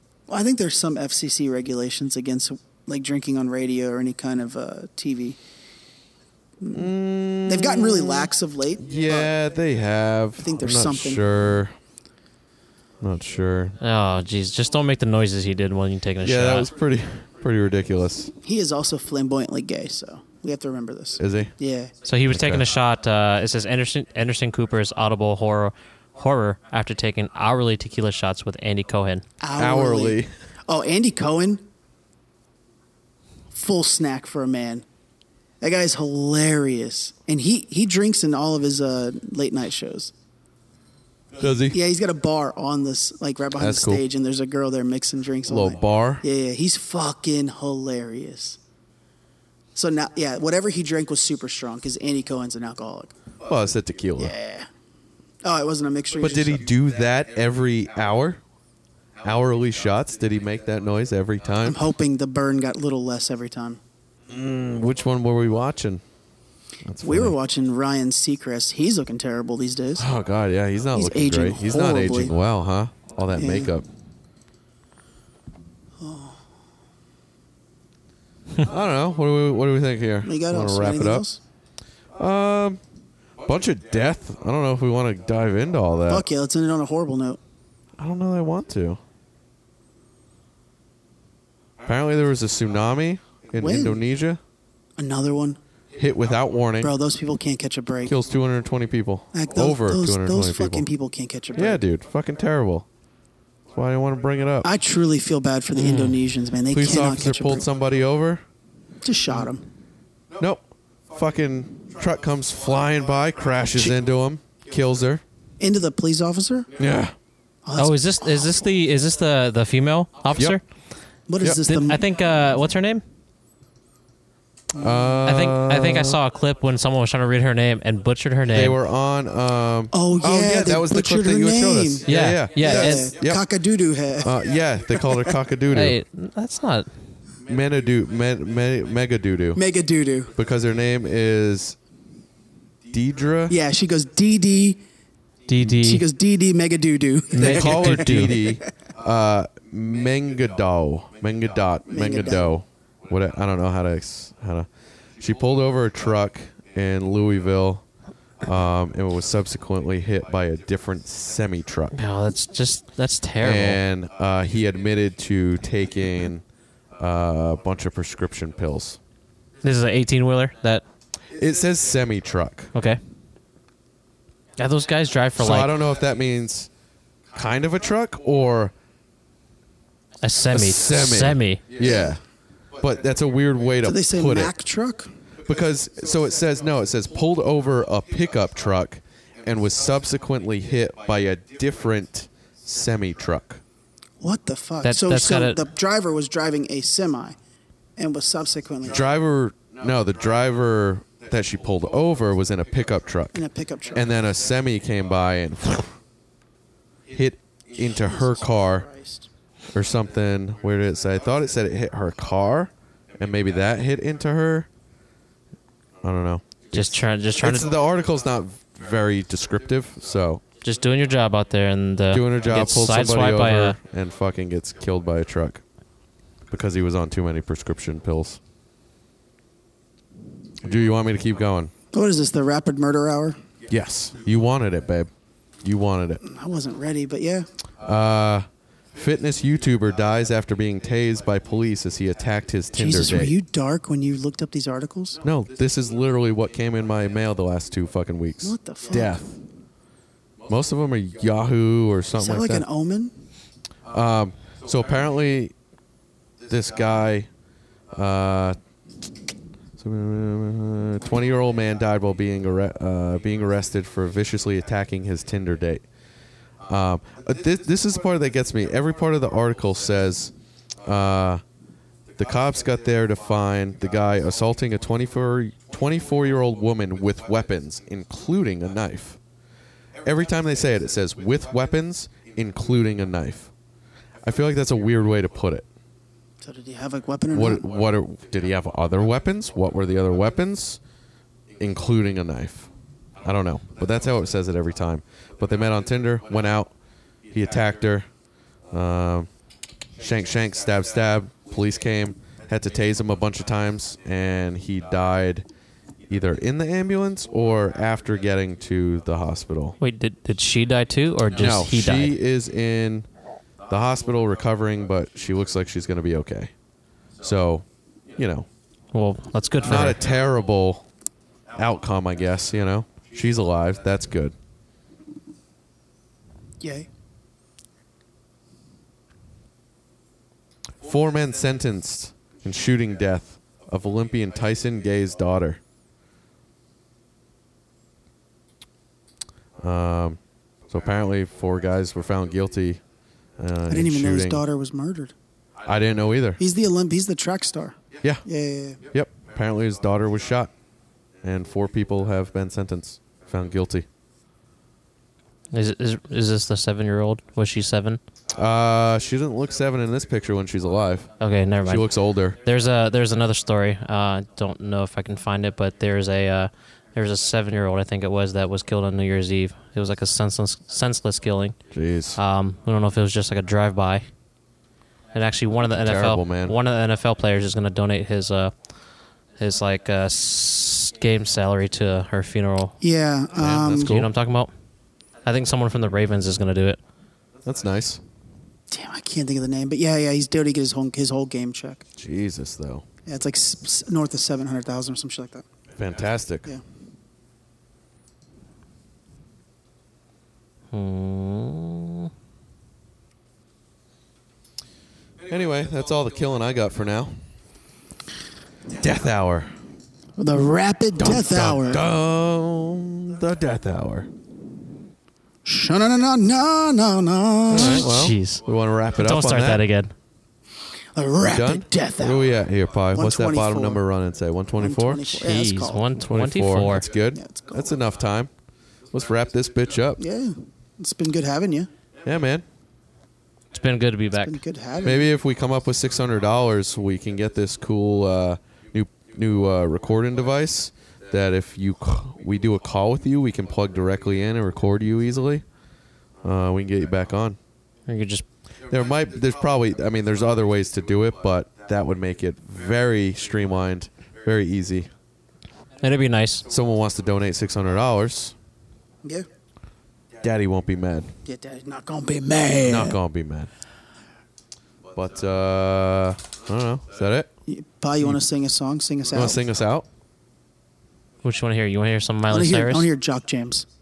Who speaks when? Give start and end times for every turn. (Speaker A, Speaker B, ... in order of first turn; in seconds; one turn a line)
Speaker A: 0.3-5.4
Speaker A: 6.6-6.9
Speaker B: 6.7-11.7
Speaker A: 7.5-9.3
Speaker A: 10.4-11.2
Speaker B: 13.0-13.8
Speaker C: 13.8-16.7
Speaker B: 16.2-18.3
Speaker A: 18.4-21.9
Speaker B: 21.2-21.5
Speaker C: 22.1-29.2
Speaker B: 22.3-22.7
Speaker A: 29.4-31.6
Speaker B: 29.6-30.3
Speaker A: 33.5-34.9
Speaker A: 35.6-40.1
Speaker B: 41.4-41.8
Speaker A: 41.7-48.6
Speaker B: 43.6-44.1
Speaker B: 45.5-46.2
Speaker A: 49.8-53.1
Speaker B: 53.5-54.4
Speaker A: 54.2-54.7
Speaker A: 55.4-56.6
Speaker B: 56.2-58.4
Speaker B: 59.2-61.8
Speaker A: 61.6-63.8
Speaker B: 64.3-66.0
Speaker B: 66.8-67.4
Speaker A: 67.0-70.1
Speaker B: 70.0-73.9
Speaker A: 71.0-72.3
Speaker A: 73.3-73.7
Speaker A: 76.0-76.4
Speaker B: 78.6-81.2
Speaker A: 80.2-81.4
Speaker B: 82.2-82.8
Speaker B: 83.5-86.3
Speaker A: 86.1-87.4
Speaker B: 88.0-89.0
Speaker B: 91.8-94.4
Speaker A: 93.6-94.0
Speaker A: 95.0-95.6
Speaker B: 96.0-97.0
Speaker A: 96.8-98.2
Speaker B: 98.0-100.9
Speaker A: 99.3-101.8
Speaker B: 101.5-102.9
Speaker B: 103.7-104.7
Speaker A: 104.6-107.7
Speaker C: 105.8-106.2
Speaker B: 106.7-108.4
Speaker A: 109.0-109.6
Speaker B: 110.4-115.2
Speaker A: 115.6-116.7
Speaker B: 116.8-117.2
Speaker A: 117.7-118.5
Speaker C: 117.8-120.6
Speaker A: 121.3-122.0
Speaker C: 121.6-123.0
Speaker A: 124.8-125.2
Speaker B: 124.8-126.2
Speaker C: 125.3-128.8
Speaker B: 128.5-133.4
Speaker A: 129.9-134.4
Speaker C: 132.1-133.1
Speaker B: 134.2-136.0
Speaker C: 135.7-136.9
Speaker B: 137.5-139.6
Speaker A: 139.6-140.3
Speaker B: 140.3-141.8
Speaker B: 142.9-143.6
Speaker A: 143.5-144.8
Speaker C: 145.5-146.0
Speaker A: 145.6-148.6
Speaker C: 147.3-148.3
Speaker B: 147.4-154.7
Speaker A: 151.9-152.5
Speaker B: 155.2-157.8
Speaker B: 158.4-162.0
Speaker C: 161.9-163.8
Speaker B: 163.4-166.4
Speaker B: 167.0-169.0
Speaker C: 169.6-170.8
Speaker B: 171.3-172.7
Speaker C: 172.7-173.0
Speaker C: 174.6-175.7
Speaker B: 175.4-176.7
Speaker B: 177.3-178.7
Speaker C: 180.2-181.6
Speaker B: 180.5-182.2
Speaker A: 181.8-182.2
Speaker B: 182.8-184.5
Speaker A: 183.8-185.1
Speaker B: 185.4-193.6
Speaker A: 194.2-197.4
Speaker C: 194.8-195.6
Speaker A: 198.0-199.0
Speaker B: 198.8-206.0
Speaker A: 203.3-204.1
Speaker B: 207.1-208.9
Speaker A: 208.2-209.3
Speaker B: 209.7-214.7
Speaker B: 216.0-220.4
Speaker C: 216.7-217.7
Speaker C: 220.6-223.8
Speaker B: 222.1-225.6
Speaker B: 226.5-228.4
Speaker B: 230.6-231.7
Speaker A: 231.9-233.4
Speaker B: 233.7-235.1
Speaker B: 235.6-236.2
Speaker A: 236.2-237.5
Speaker B: 237.8-243.3
Speaker A: 242.8-245.2
Speaker B: 245.2-249.4
Speaker A: 248.4-249.2
Speaker B: 250.5-252.7
Speaker A: 252.2-253.2
Speaker B: 253.9-255.5
Speaker B: 256.5-257.3
Speaker B: 257.9-258.6
Speaker B: 259.8-265.8
Speaker B: 266.7-270.3
Speaker B: 270.8-271.4
Speaker B: 272.1-279.2
Speaker B: 280.0-283.5
Speaker B: 284.2-285.7
Speaker A: 286.4-287.6
Speaker B: 287.3-290.8
Speaker B: 291.6-292.7
Speaker B: 293.2-296.7
Speaker B: 297.3-298.1
Speaker B: 298.7-299.3
Speaker B: 300.0-305.5
Speaker B: 306.1-309.8
Speaker C: 309.8-312.2
Speaker B: 311.4-313.1
Speaker B: 313.7-316.5
Speaker B: 317.2-318.5
Speaker C: 318.9-320.0
Speaker B: 319.6-320.9
Speaker B: 321.6-324.4
Speaker A: 326.6-326.9
Speaker B: 330.8-335.6
Speaker B: 339.6-342.8
Speaker B: 343.4-344.4
Speaker A: 343.7-345.1
Speaker B: 345.6-346.4
Speaker A: 346.4-348.8
Speaker B: 348.9-350.5
Speaker B: 351.2-353.9
Speaker C: 355.5-358.0
Speaker B: 358.3-361.1
Speaker C: 361.2-371.6
Speaker B: 361.7-362.4
Speaker B: 371.7-372.2
Speaker C: 372.1-374.1
Speaker C: 375.1-378.5
Speaker B: 375.7-376.6
Speaker C: 379.4-382.8
Speaker A: 382.8-384.1
Speaker B: 383.4-384.1
Speaker C: 383.8-384.5
Speaker C: 385.2-386.8
Speaker B: 387.4-388.0
Speaker A: 388.7-391.9
Speaker B: 392.0-392.9
Speaker A: 393.1-395.4
Speaker B: 395.8-396.5
Speaker C: 400.7-402.1
Speaker B: 405.2-407.2
Speaker B: 408.7-409.5
Speaker A: 410.2-411.8
Speaker B: 411.0-414.1
Speaker A: 415.4-417.8
Speaker C: 417.5-418.4
Speaker B: 417.5-419.6
Speaker C: 419.0-419.9
Speaker A: 420.9-422.3
Speaker B: 421.2-425.2
Speaker A: 422.9-423.8
Speaker A: 424.6-425.8
Speaker C: 425.2-426.9
Speaker B: 426.0-428.3
Speaker A: 427.1-427.7
Speaker B: 428.9-430.0
Speaker A: 430.0-431.7
Speaker B: 432.0-432.4
Speaker C: 433.5-434.4
Speaker A: 434.2-435.1
Speaker B: 434.8-445.4
Speaker B: 446.2-447.4
Speaker C: 447.9-448.2
Speaker B: 448.7-454.9
Speaker C: 455.8-456.5
Speaker B: 456.5-458.3
Speaker B: 460.2-461.1
Speaker A: 461.2-463.0
Speaker B: 462.6-463.5
Speaker B: 464.9-467.3
Speaker A: 467.5-469.4
Speaker B: 469.1-469.9
Speaker C: 471.2-472.9
Speaker A: 472.3-473.7